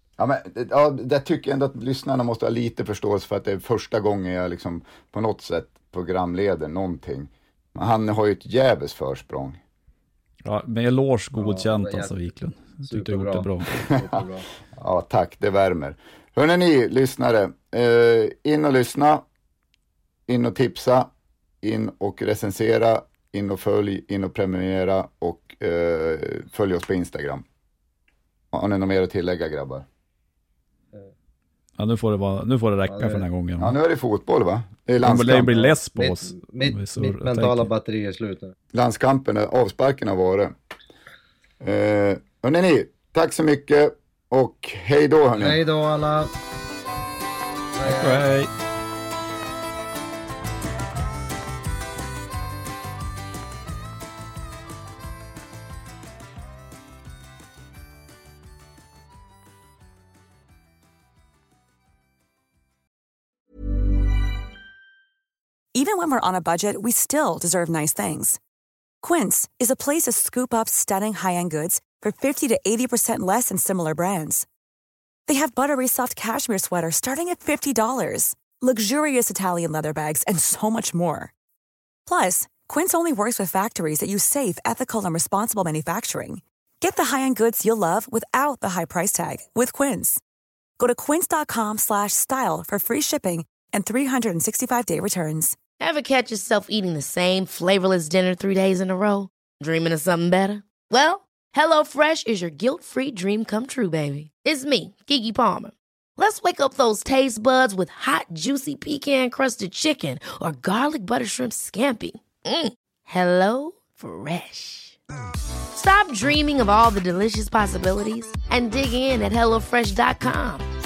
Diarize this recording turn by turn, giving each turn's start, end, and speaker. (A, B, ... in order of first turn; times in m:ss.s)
0:00.2-0:09.6 A
0:10.4-0:13.8 B
0:11.4-0:12.1 C
0:12.8-0:14.5 C
0:14.7-0:19.2 A
0:20.3-0:21.1 A
0:21.6-0:27.4 A
0:28.5-0:29.9 A
0:31.8-0:33.7 B
0:32.9-0:33.2 C
0:33.6-0:35.6 A
0:35.0-0:37.7 B
0:35.5-0:38.6 C
0:38.7-0:40.5 A
0:41.6-0:45.6 A
0:45.4-0:46.3 C
0:47.8-0:48.3 C
0:47.8-0:48.5 B
1:05.7-1:08.4 D
1:09.0-1:14.4 D
1:15.3-1:21.3 D
1:22.0-1:30.2 D
1:30.8-1:35.6 D
1:35.8-1:55.0 E
1:55.7-2:00.6 E